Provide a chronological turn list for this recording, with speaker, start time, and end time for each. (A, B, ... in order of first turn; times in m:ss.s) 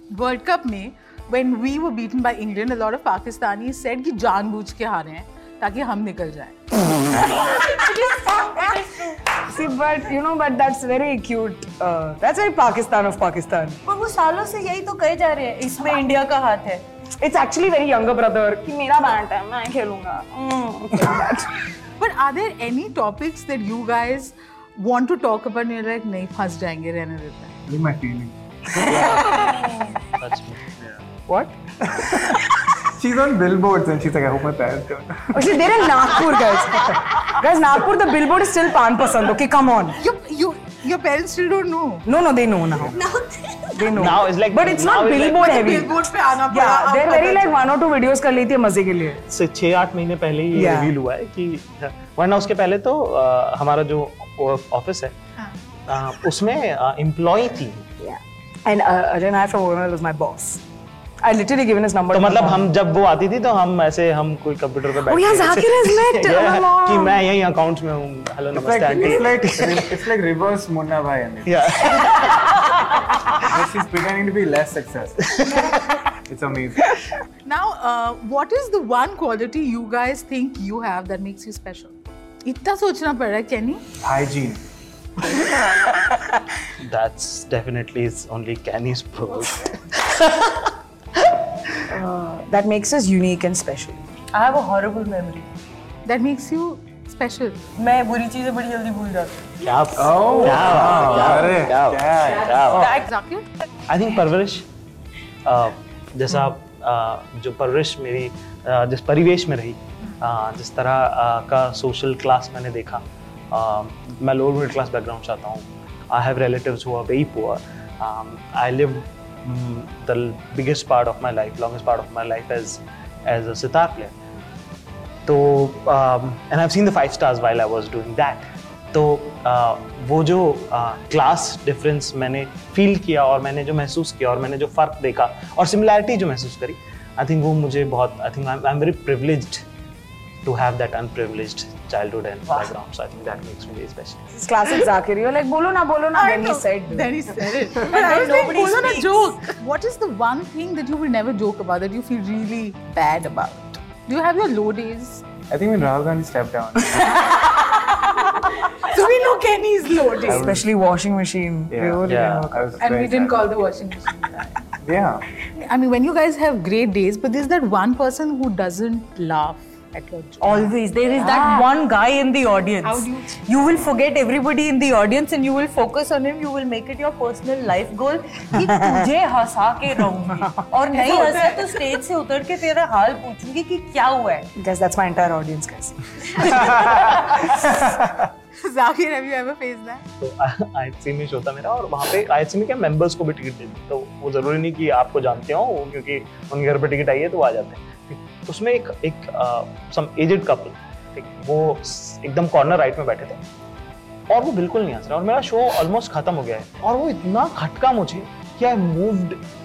0:00.1-0:06.6 A
0:07.5-0:09.2 B
0:08.3-0:08.6 C
0:09.4-0:13.8 C
0:13.9-0:16.8 B
0:17.2-0:21.5 C
0:22.0-0:27.5 A
0:27.7-0:29.3 D
0:28.8-0:29.6 C
0:29.2-0:30.8 E
0:31.3-0:32.3 C
0:32.8-0:35.6 D
0:35.3-0:40.0 C
0:40.0-0:42.1 A
0:42.1-0:43.0 C
0:42.8-0:43.1 D
0:43.7-0:46.0 C
0:43.9-0:45.8 E
0:45.3-0:47.6 A
0:46.5-0:49.2 C
0:49.3-0:55.2 E
0:50.5-0:50.9 C
0:55.9-0:57.9 E
0:58.0-1:00.6 C
1:01.2-1:02.7 C
1:02.1-1:10.0 E
1:05.0-1:07.2 C
1:08.5-1:11.6 D
1:11.4-1:13.3 E
1:13.4-1:15.4 D
1:15.4-1:15.7 E
1:16.3-1:16.9 D
1:17.4-1:23.8 A
1:24.0-1:24.6 D
1:26.8-1:30.6 E
1:31.9-1:34.0 C
1:34.3-1:35.5 B
1:36.0-1:37.6 A
1:37.8-1:39.4 B
1:39.6-1:42.9 E
1:40.0-1:42.9 D
1:42.7-1:43.1 B
1:42.9-1:43.5 A
1:43.9-1:44.7 E
1:45.5-2:04.2 E
2:05.3-2:19.6 E
2:20.4-2:24.2 E
2:24.3-2:27.1 C
2:26.1-2:35.2 A
2:27.7-2:29.3 B
2:35.5-2:37.3 D
2:37.4-2:40.5 A
2:40.2-2:40.7 D
2:40.3-2:42.8 C
2:41.7-2:43.5 D
2:42.1-2:42.5 E
2:42.8-2:44.7 A
2:44.8-2:45.2 D
2:45.6-2:51.6 A
2:50.4-3:04.5 B
2:52.8-2:53.4 A
3:01.0-3:01.7 A
3:04.6-3:06.8 C
3:07.0-3:07.4 E
3:08.6-3:10.0 A
3:10.2-3:23.4 E
3:24.3-3:29.4 E